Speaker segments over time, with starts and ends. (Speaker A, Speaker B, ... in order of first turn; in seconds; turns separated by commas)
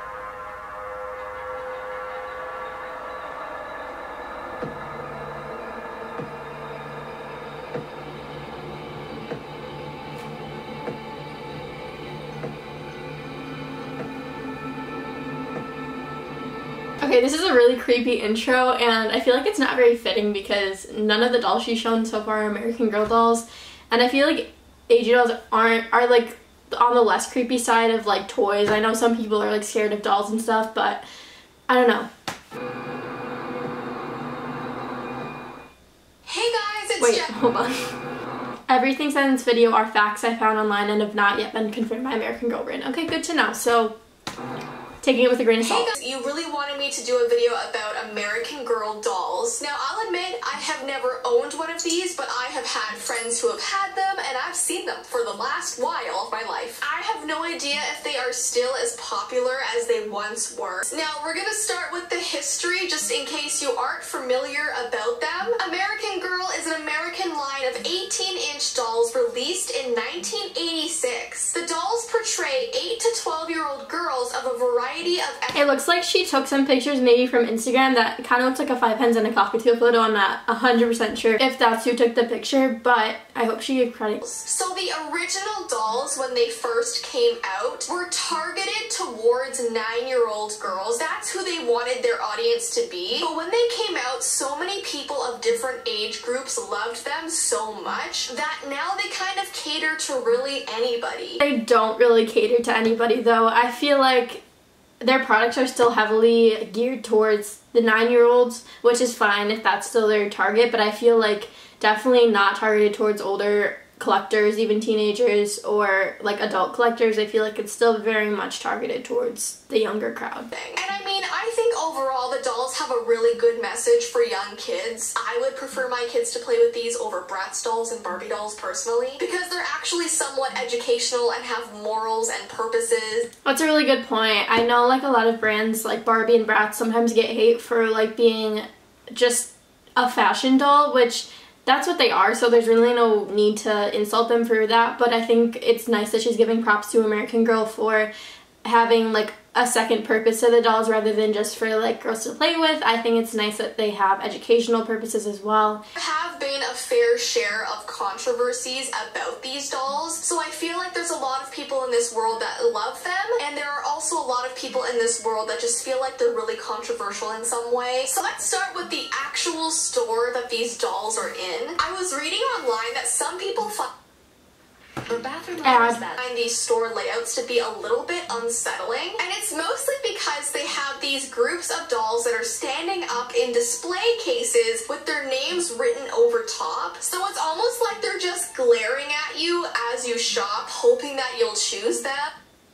Speaker A: 17.0-31.0, Speaker A: 31.7-32.1, Speaker B: 36.2-37.3, Speaker A: 37.0-37.9, Speaker A: 38.7-43.9, Speaker A: 45.0-45.9, Speaker B: 45.6-75.7, Speaker A: 75.5-84.2, Speaker B: 84.2-101.4, Speaker A: 101.4-104.4, Speaker A: 105.0-120.5, Speaker B: 120.5-133.3, Speaker A: 133.4-148.1, Speaker A: 148.6-155.8, Speaker B: 155.9-173.9, Speaker B: 175.1-192.3, Speaker A: 175.6-176.0